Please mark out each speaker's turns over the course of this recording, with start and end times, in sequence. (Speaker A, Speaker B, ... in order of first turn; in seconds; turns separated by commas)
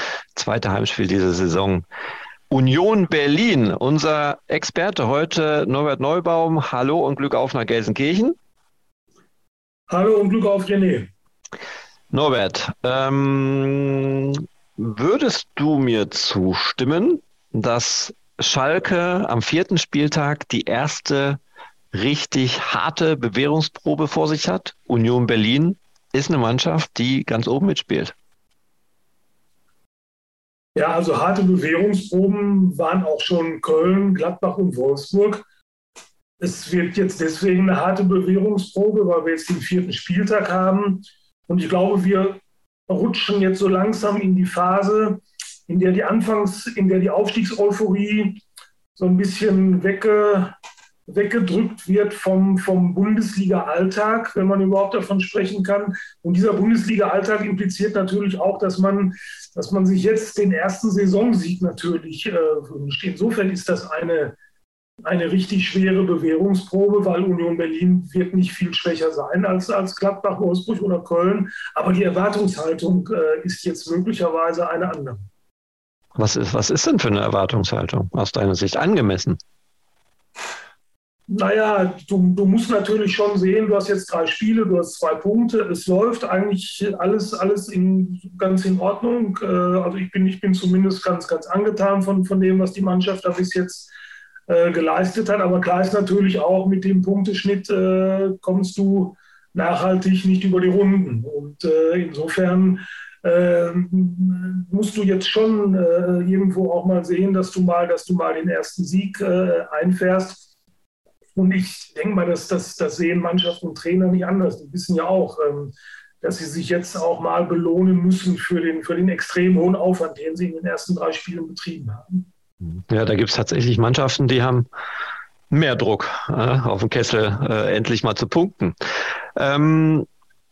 Speaker A: 0.3-1.9, Speaker A: 2.5-8.3, Speaker B: 9.9-11.1, Speaker A: 12.1-21.4, Speaker A: 21.9-28.1, Speaker B: 30.7-35.5, Speaker B: 36.4-48.4, Speaker B: 49.0-50.5, Speaker B: 51.1-64.4, Speaker B: 65.0-75.3, Speaker A: 76.1-79.4, Speaker B: 81.3-93.9, Speaker B: 94.5-110.5, Speaker B: 111.3-122.3, Speaker A: 122.8-124.7, Speaker A: 125.5-128.8, Speaker A: 129.3-130.1